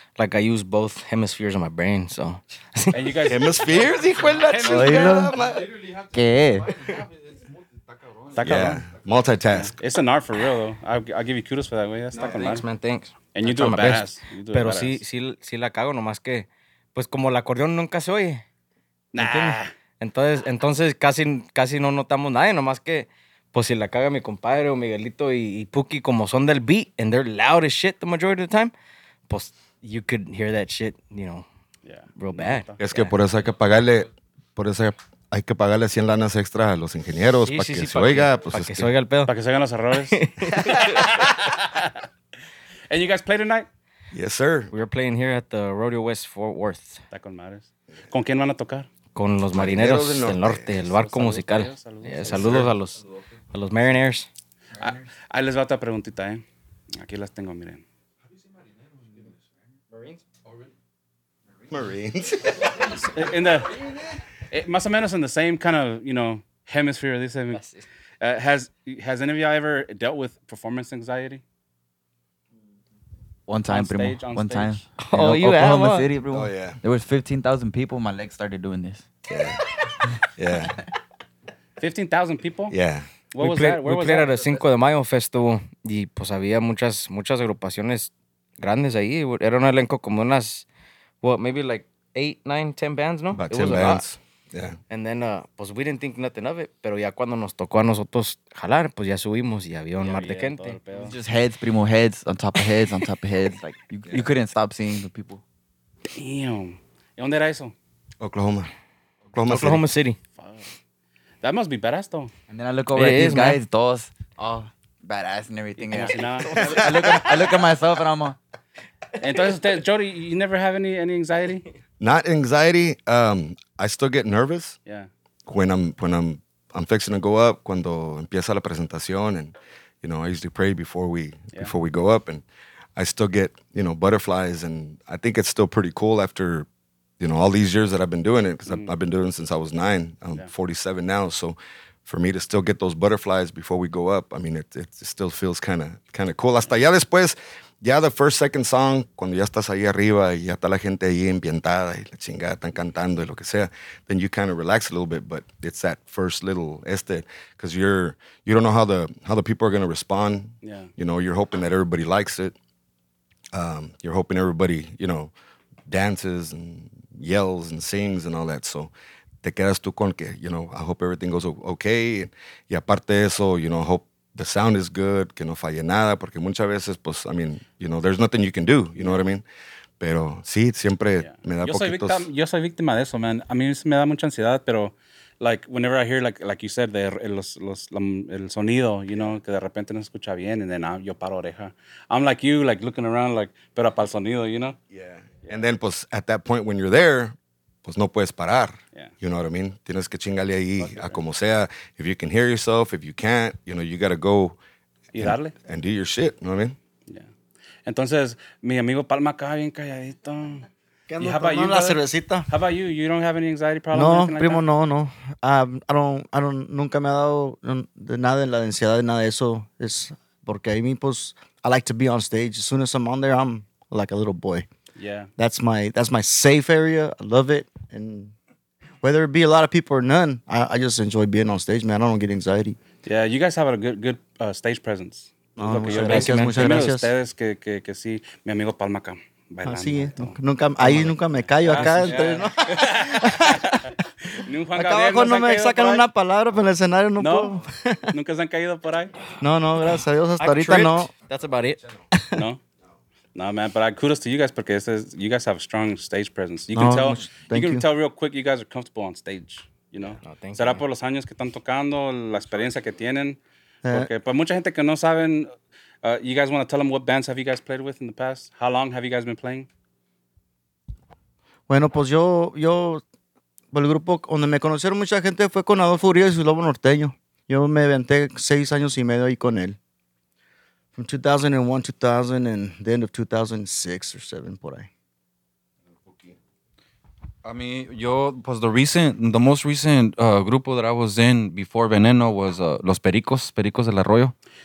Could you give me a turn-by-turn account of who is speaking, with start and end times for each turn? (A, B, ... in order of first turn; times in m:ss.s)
0:00.2-0:03.1 A
0:02.9-0:05.2 B
0:03.2-0:05.7 C
0:04.6-0:05.3 D
0:05.3-0:08.6 E
0:06.1-0:06.7 D
0:08.4-0:08.8 B
0:08.4-0:09.8 C
0:09.5-0:12.6 B
0:12.1-0:18.4 A
0:13.3-0:15.0 B
0:19.1-0:19.7 B
0:19.2-0:28.7 A
0:29.3-0:31.4 A
0:31.8-0:32.9 B
0:32.2-0:32.7 A
0:32.8-0:38.9 C
0:37.5-0:39.3 A
0:39.2-0:42.0 B
0:40.1-0:41.1 A
0:42.9-0:43.7 B
0:44.1-0:44.7 C
0:44.7-0:47.0 A
0:47.1-0:48.9 B
0:49.2-0:54.3 A
0:49.5-0:50.7 C
0:50.8-0:52.7 B
0:52.3-0:52.7 C
0:54.8-0:55.1 D
0:54.8-0:57.8 B
0:59.9-1:00.2 A
1:01.7-1:03.1 C
1:03.0-1:03.8 B
1:04.5-1:07.6 B
1:08.2-1:11.4 B
1:13.5-1:19.0 D
1:13.7-1:14.8 B
1:15.0-1:16.1 A
1:16.3-1:16.8 C
1:19.3-1:19.6 C
1:20.4-1:20.8 C
1:21.8-1:22.8 B
1:22.7-1:23.1 C
1:23.3-1:24.5 B
1:23.4-1:30.7 A
1:31.2-1:34.0 A
1:33.3-1:34.8 C
1:34.9-1:40.8 A
1:40.0-1:41.1 B
1:40.9-1:45.4 D
1:46.1-1:47.8 B
1:48.2-1:48.7 C
1:49.3-1:49.8 C
1:49.5-1:50.2 A
1:50.4-1:50.7 B
1:51.4-1:52.3 B
1:52.5-1:58.4 D
1:52.9-1:53.6 A
1:55.8-1:56.9 B
1:56.6-1:57.5 C
1:59.2-2:01.6 B
2:02.0-2:04.8 C
2:05.5-2:12.4 C
2:13.0-2:16.7 C
2:17.2-2:42.6 C
2:40.6-2:40.9 B
2:43.5-2:45.3 C
2:45.9-2:48.9 C
2:49.4-2:59.4 C
2:59.0-2:59.2 B
3:00.0-3:02.3 C
3:01.2-3:14.8 B
3:14.9-3:24.6 C
3:20.8-3:21.2 B
3:25.1-3:25.5 B
3:25.2-3:26.8 C
3:27.9-3:30.7 B
3:31.1-3:32.5 F
3:31.2-3:34.6 B
3:33.9-3:44.7 F
3:45.0-3:45.3 B
3:45.4-3:48.3 F
3:49.0-3:52.8 F
3:53.0-4:01.1 B
3:55.6-3:57.1 F
3:55.9-3:56.8 A
3:59.6-4:03.9 F
4:01.6-4:06.0 B
4:04.7-4:08.1 F
4:07.2-4:09.3 B
4:09.4-4:11.1 F
4:10.4-4:11.8 A
4:12.2-4:12.4 F
4:13.4-4:25.5 B
4:16.7-4:17.8 F
4:20.2-4:20.8 A
4:26.0-4:29.7 B
4:31.7-4:33.0 F
4:33.7-4:39.8 F
4:41.0-4:44.9 F
4:46.0-4:46.4 C
4:47.4-4:54.3 E